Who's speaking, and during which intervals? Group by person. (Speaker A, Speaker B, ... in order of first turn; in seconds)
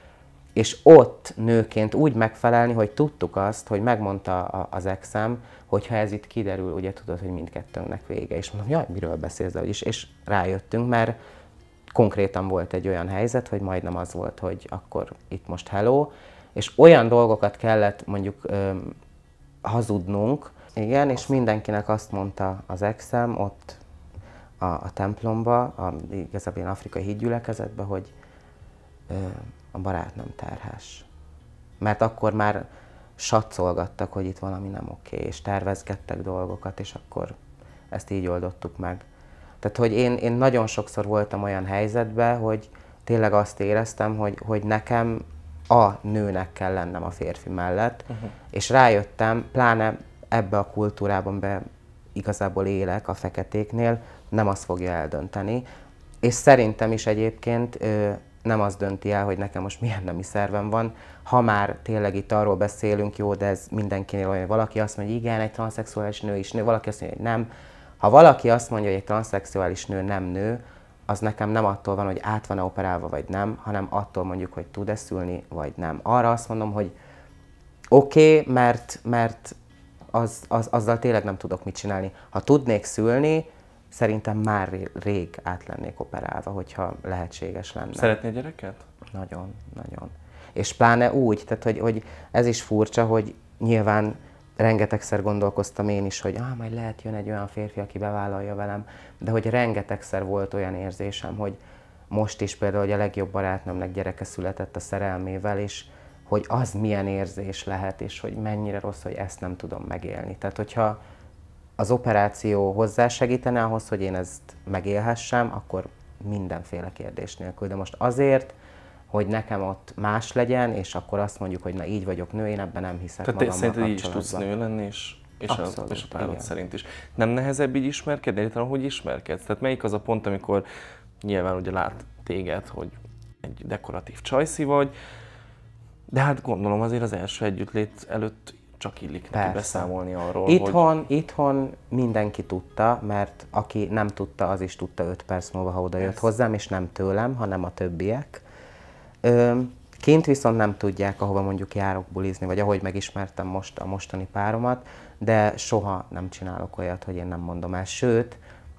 Speaker A: 0.6-11.2, 11.9-19.0, 19.6-23.8, 24.6-28.1, 29.1-31.1, 31.8-32.7, 33.2-37.4, 37.9-39.0, 39.6-55.7, 56.2-67.5, 68.0-76.9, 77.9-79.6, 80.1-88.1, 89.1-101.6, 102.1-111.0, 111.8-118.6, 119.1-124.5, 125.5-126.5, 139.3-139.9, 140.5-148.4, 149.2-158.4
Speaker B: 88.0-88.8, 123.2-130.7, 131.2-134.9, 136.1-140.8